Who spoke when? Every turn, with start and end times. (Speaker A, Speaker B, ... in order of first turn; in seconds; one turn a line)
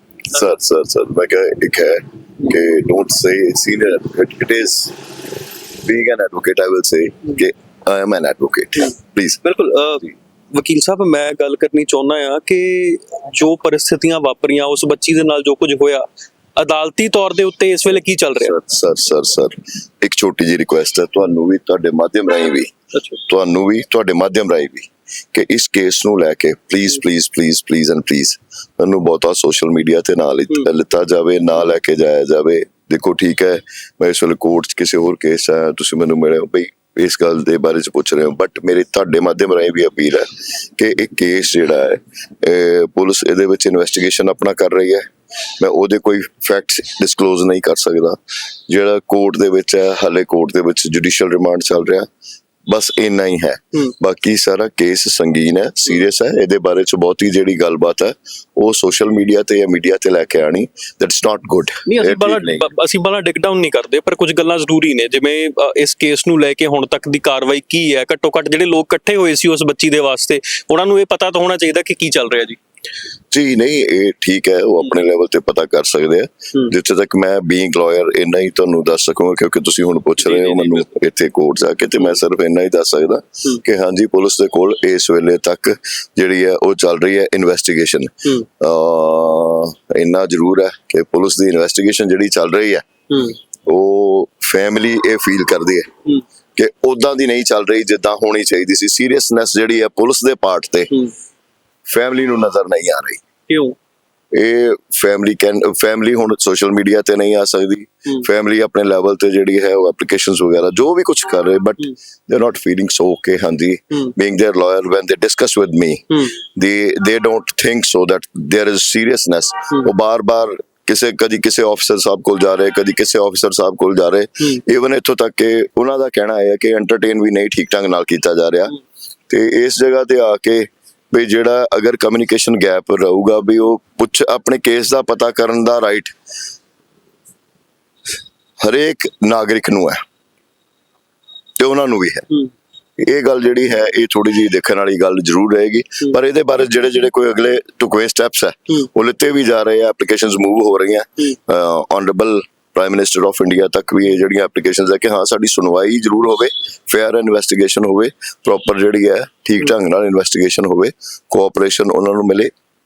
Speaker A: 0.3-5.0
Speaker A: 5.8-9.4
Speaker B: 9.4-18.6
Speaker A: 18.4-22.7
Speaker B: 22.9-23.2
Speaker A: 23.3-45.1
Speaker A: 45.6-52.1
Speaker A: 52.7-62.7
Speaker B: 61.9-72.6
Speaker A: 73.3-92.8
Speaker B: 80.2-80.9
Speaker B: 93.1-93.4
Speaker A: 93.7-95.9
Speaker A: 96.6-100.9
Speaker A: 101.9-103.2
Speaker B: 103.5-103.8
Speaker A: 104.3-128.8
Speaker A: 129.3-136.1
Speaker A: 138.6-140.0
Speaker A: 141.6-142.3
Speaker A: 143.0-162.5